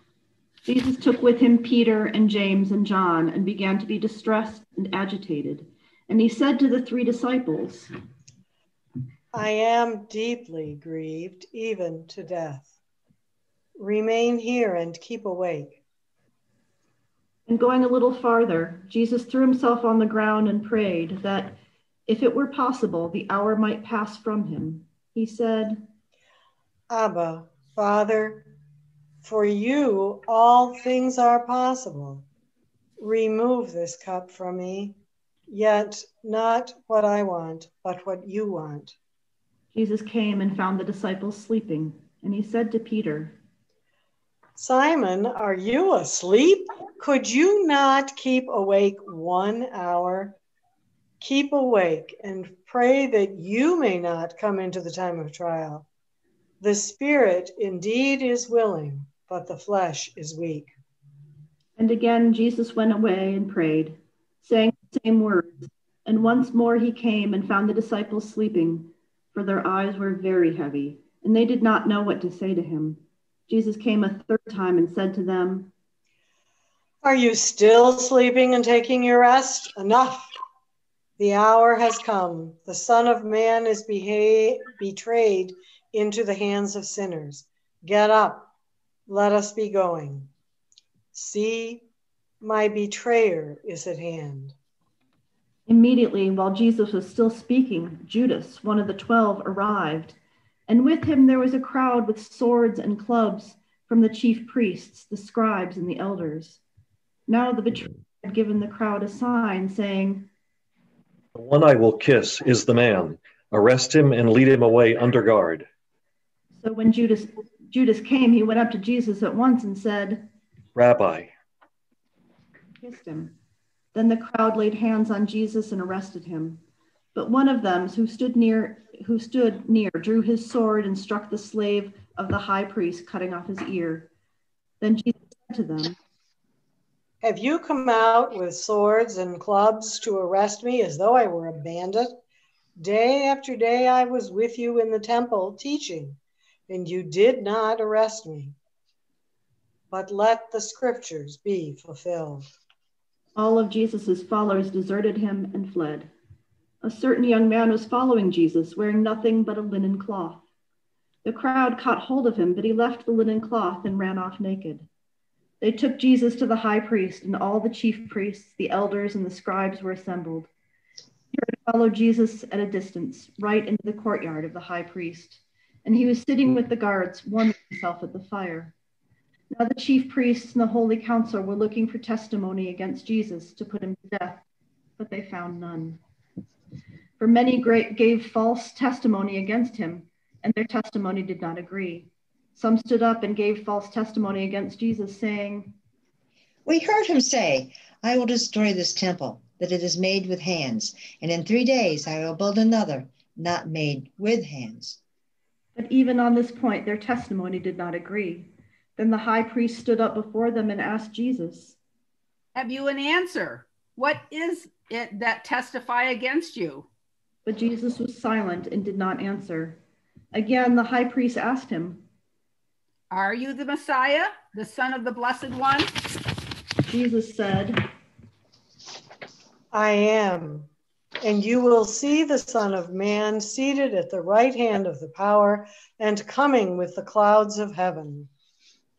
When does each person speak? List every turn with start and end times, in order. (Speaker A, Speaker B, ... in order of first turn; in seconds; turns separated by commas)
Speaker A: 0.7-7.9, Speaker B: 9.3-12.7, Speaker B: 13.8-15.8, Speaker A: 17.5-25.8, Speaker B: 26.9-28.5, Speaker B: 29.2-32.2, Speaker B: 33.0-35.0, Speaker B: 35.5-39.0, Speaker A: 39.7-43.4, Speaker B: 44.6-50.4, Speaker B: 51.2-55.9, Speaker B: 56.6-60.7, Speaker A: 61.8-75.7, Speaker B: 77.0-80.3, Speaker B: 81.2-88.5, Speaker B: 89.1-90.3, Speaker B: 91.1-91.8, Speaker B: 92.4-94.5, Speaker A: 95.7-100.2, Speaker A: 100.7-106.6, Speaker A: 107.3-110.3, Speaker C: 111.3-115.7, Speaker A: 116.6-120.3, Speaker C: 120.8-121.3, Speaker A: 122.8-123.3, Speaker A: 123.9-126.6, Speaker A: 127.2-134.1, Speaker A: 134.8-136.0, Speaker B: 137.2-142.1, Speaker B: 142.8-146.2, Speaker B: 146.7-148.6, Speaker B: 149.9-152.5, Speaker A: 153.4-156.1, Speaker A: 156.8-160.4, Speaker A: 161.2-164.9, Speaker A: 165.6-170.5, Speaker A: 171.3-178.7, Speaker A: 179.5-184.4, Speaker A: 185.0-186.0, Speaker A: 187.2-195.7, Speaker D: 196.7-205.0, Speaker A: 205.8-211.8, Speaker E: 212.6-216.9, Speaker A: 217.4-219.8, Speaker A: 220.3-222.0, Speaker E: 223.1-225.9, Speaker A: 226.9-227.9, Speaker B: 229.7-230.7, Speaker B: 231.2-238.3